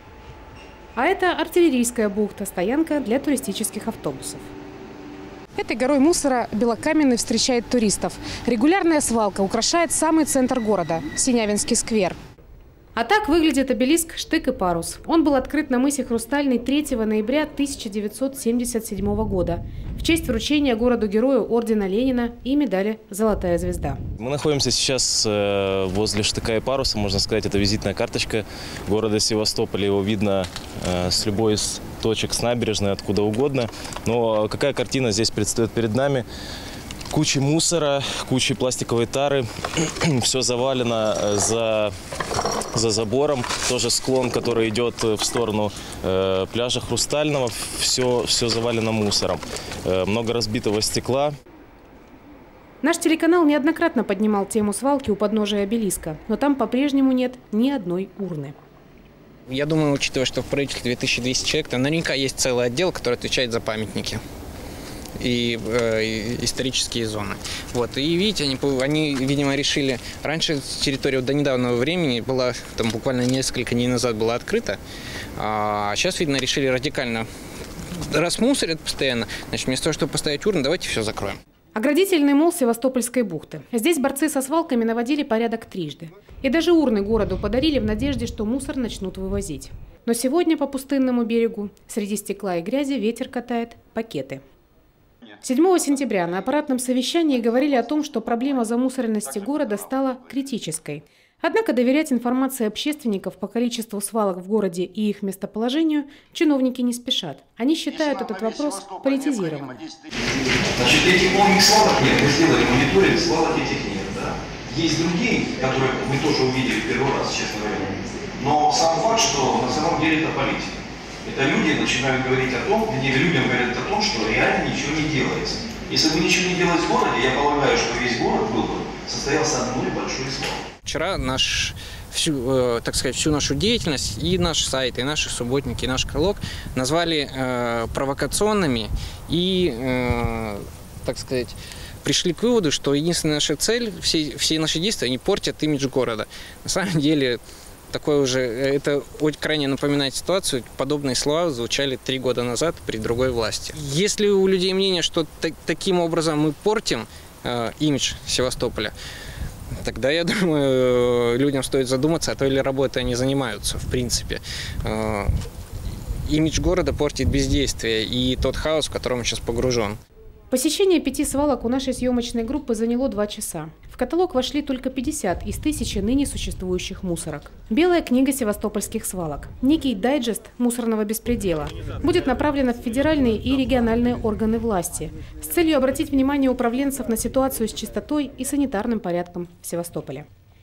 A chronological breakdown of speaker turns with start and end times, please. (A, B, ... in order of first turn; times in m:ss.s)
0:01.0-0:04.5 A
0:05.6-0:12.2 A
0:13.0-0:24.0 A
0:24.2-0:36.3 B
0:37.1-0:41.9 B
0:42.7-0:51.3 B
0:52.8-0:58.6 A
0:59.5-1:04.2 C
1:05.2-1:14.8 C
1:15.4-1:17.3 C
1:17.9-1:21.4 C
1:21.8-1:34.4 A
1:35.4-1:49.9 A
1:50.8-2:10.6 D
2:10.8-2:27.4 C
2:27.9-2:38.9 C
2:39.8-2:45.4 C
2:46.3-2:50.0 C
2:50.5-3:10.3 A